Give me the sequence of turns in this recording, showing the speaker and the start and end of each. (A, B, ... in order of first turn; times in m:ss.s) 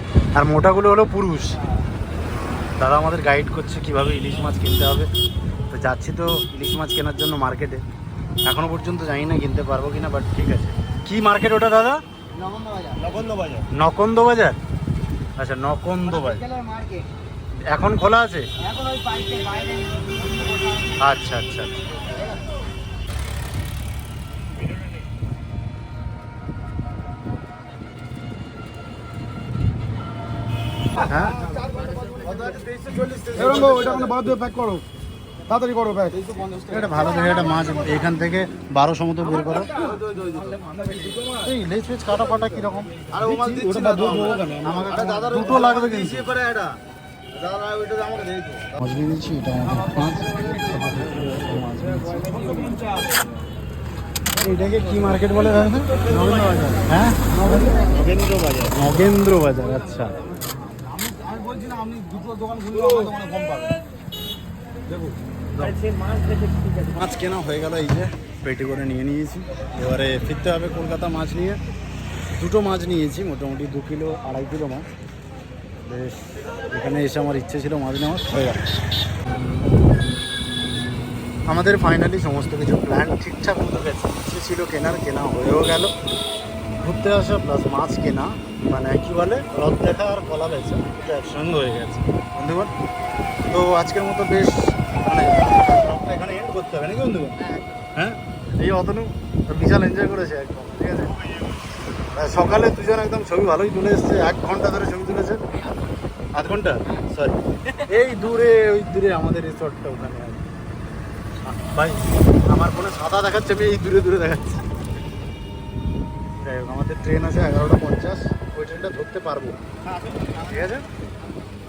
0:00.3-0:01.6 A
0:02.7-0:05.1 A
0:05.7-0:07.8 A
0:08.4-0:12.0 A
0:12.3-0:13.6 B
0:13.3-0:14.6 A
0:15.4-0:16.5 A
0:16.2-0:17.1 B
0:17.7-0:18.5 A
0:18.6-0:20.9 B
0:20.9-0:21.9 A
0:31.0-0:31.6 A
0:31.4-0:34.8 B
0:33.2-0:34.0 A
0:35.5-0:37.3 B
0:36.6-0:39.8 A
0:39.6-0:41.4 B
0:41.3-0:46.4 A
0:43.1-0:46.8 B
0:47.3-0:48.7 B
0:48.7-0:52.6 A
0:52.4-0:52.9 B
0:54.3-1:00.2 A
0:56.0-0:56.6 B
0:57.5-0:58.0 B
1:00.9-1:03.8 B
1:05.7-1:06.7 B
1:06.8-1:11.6 A
1:12.4-1:14.9 A
1:15.8-1:18.7 A
1:21.5-1:25.9 A
1:26.8-1:32.8 A
1:33.5-1:41.3 A
1:42.1-1:45.6 A
1:46.3-1:50.4 A
1:51.4-1:54.7 A
1:56.4-1:59.8 A
2:00.0-2:00.4 B
2:00.3-2:00.9 A